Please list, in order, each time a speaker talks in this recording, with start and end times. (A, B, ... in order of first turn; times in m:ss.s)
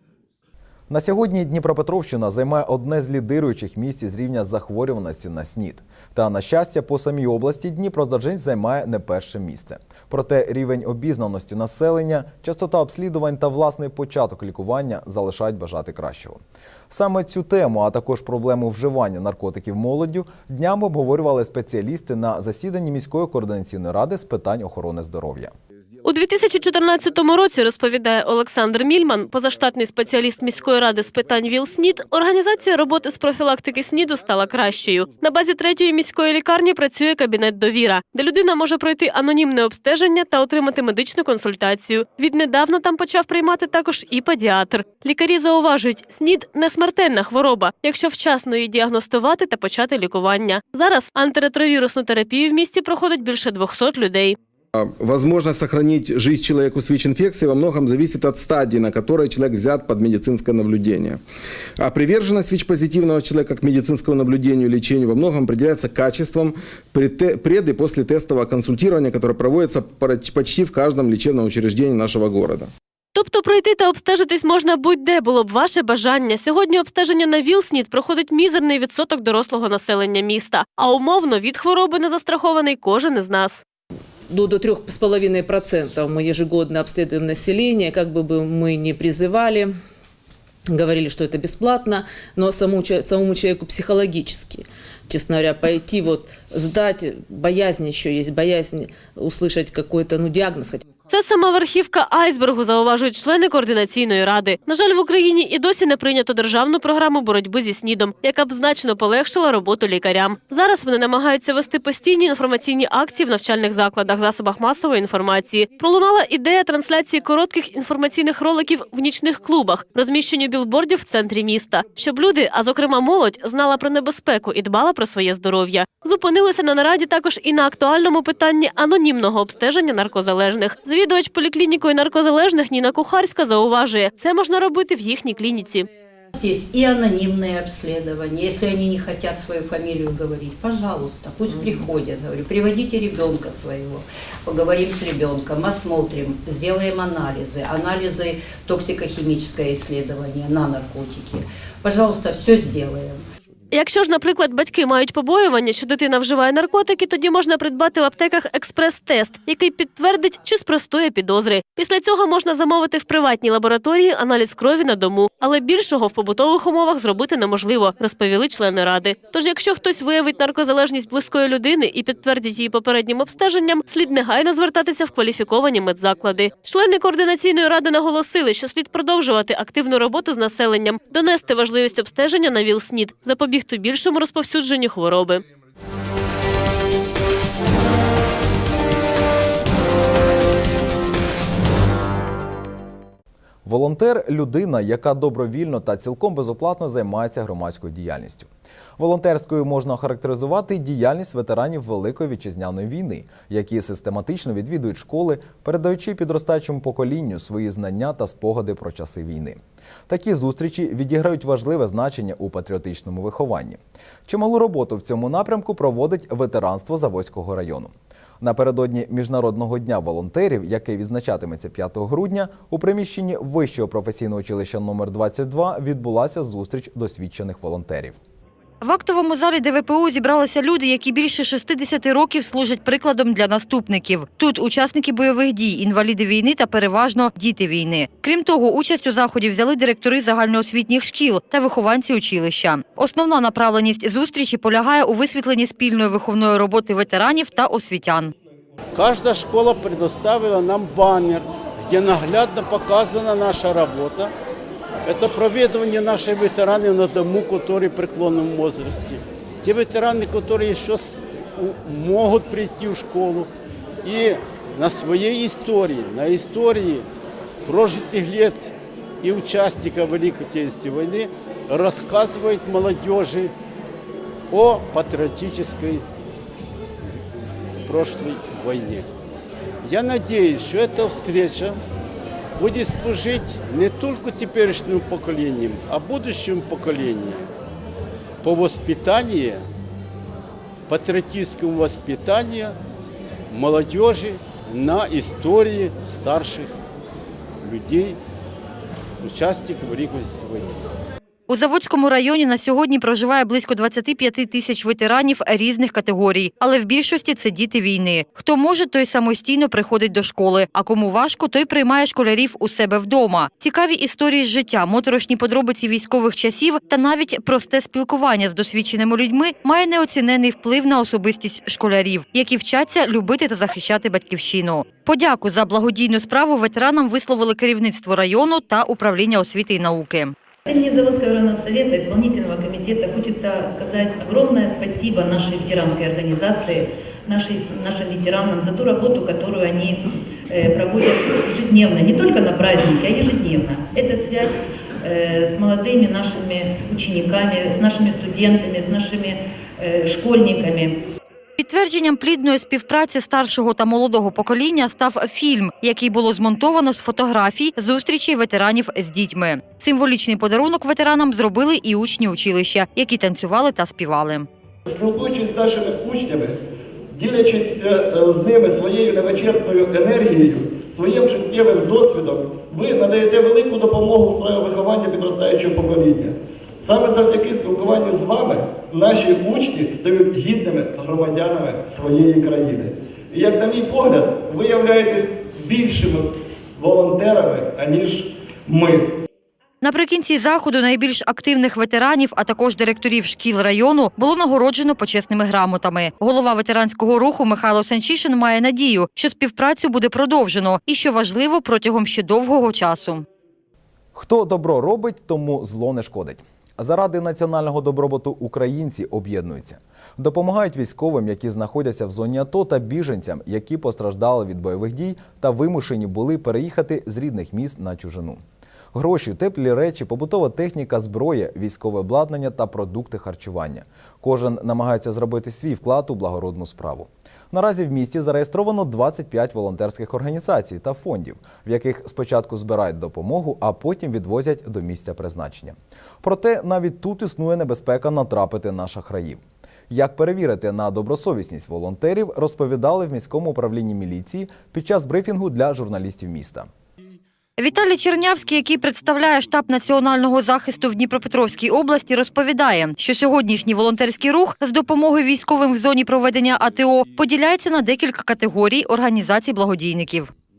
0:00.9-0:25.5 A
0:26.0-0:54.4 B
0:54.7-1:01.2 C
1:01.8-1:12.7 C
1:13.2-1:23.6 B
1:24.3-1:29.8 D
1:30.7-1:40.8 D
1:41.1-2:15.9 B
2:16.3-2:33.2 E
2:33.7-3:05.4 B
3:13.6-3:48.2 A
3:48.8-4:08.3 F
4:09.0-4:14.3 G
4:15.1-4:23.5 G
4:24.0-4:27.1 G
4:27.7-4:28.7 G
4:29.2-4:33.5 G
4:34.5-4:36.0 G
4:37.9-4:39.0 G
4:39.8-4:41.8 G
4:42.6-4:47.5 G
4:48.4-4:49.6 G
4:50.9-4:52.8 G
4:53.5-4:56.8 G
4:57.6-4:58.2 G
4:59.2-5:00.8 G
5:01.5-5:30.3 F
5:30.7-5:51.0 H
5:51.6-6:04.5 F
6:04.9-6:06.6 I
6:07.1-6:29.1 I
6:29.8-6:43.3 F
6:44.2-6:58.4 A
6:58.9-7:26.7 A
7:27.6-7:40.3 F